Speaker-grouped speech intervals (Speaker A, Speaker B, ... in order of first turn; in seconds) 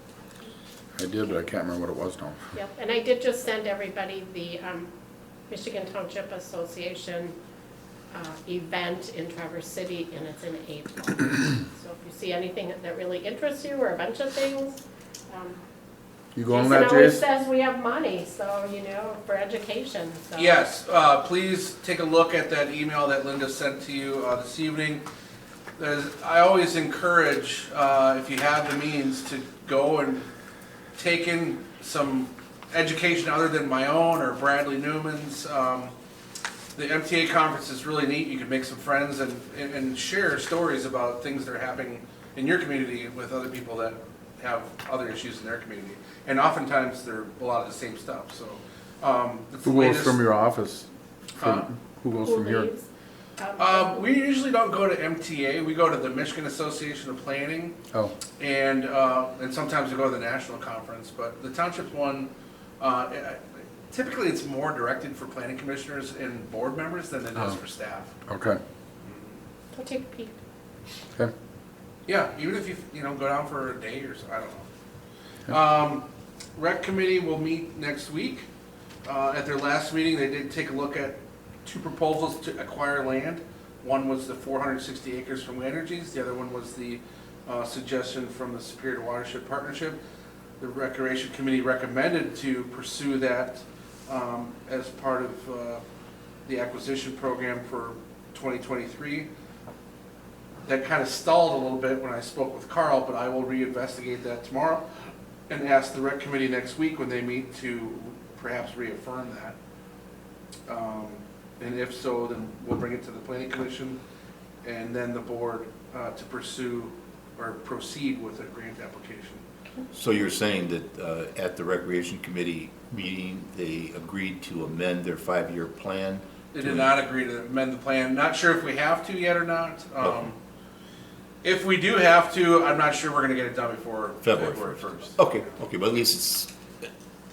Speaker A: 0.9-2.5, 16.3-17.2, 49.6-52.7, 68.3-68.6
Speaker B: 2.5-4.9, 5.5-7.3, 8.1-15.6, 16.5-20.6, 52.2-52.9, 53.4-54.1, 69.7-70.4
Speaker C: 20.4-25.0, 25.8-30.3, 31.0-35.9, 36.7-50.2, 51.4-51.7, 53.6-57.8, 58.4-68.1, 69.0-69.3, 72.1-74.7, 75.5-78.5, 79.0-90.0, 90.6-95.8, 96.5-99.3, 100.6-104.8, 105.5-109.5, 110.7-114.0, 114.6-119.4, 126.5-130.3, 131.4-135.2
Speaker D: 119.9-126.9, 134.2-136.5